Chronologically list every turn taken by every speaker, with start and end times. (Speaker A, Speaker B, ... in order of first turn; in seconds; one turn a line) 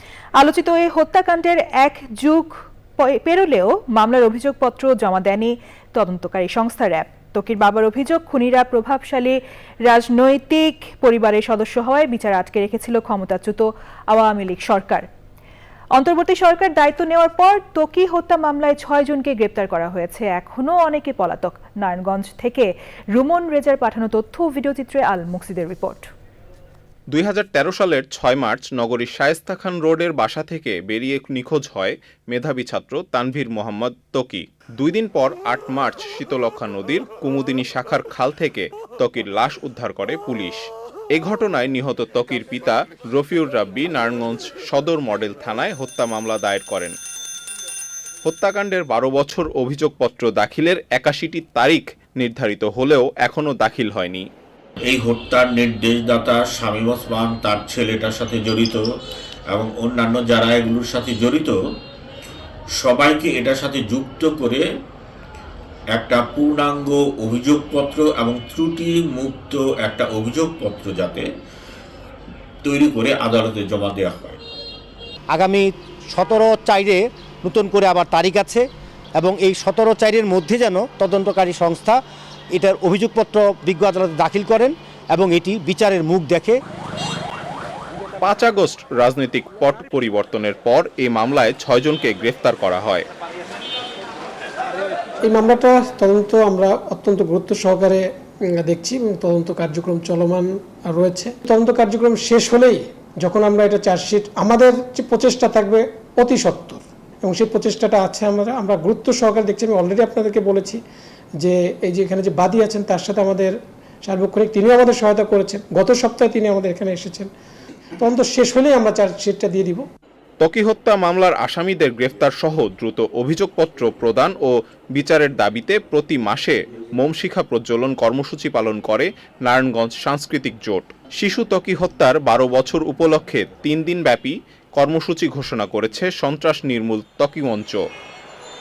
Speaker A: 0.4-15.1
Speaker A: 15.9-26.1
Speaker B: 27.1-47.0
Speaker B: 48.2-54.3
Speaker C: 54.9-58.8
Speaker C: 59.5-61.5
Speaker C: 62.8-64.6
Speaker C: 66.0-71.3
Speaker C: 72.6-74.4
Speaker D: 75.3-78.7
Speaker D: 79.2-82.0
Speaker D: 82.6-86.6
Speaker B: 88.2-93.0
Speaker E: 95.3-110.8
Speaker E: 111.4-117.3
Speaker E: 118.0-119.8
Speaker B: 120.4-137.8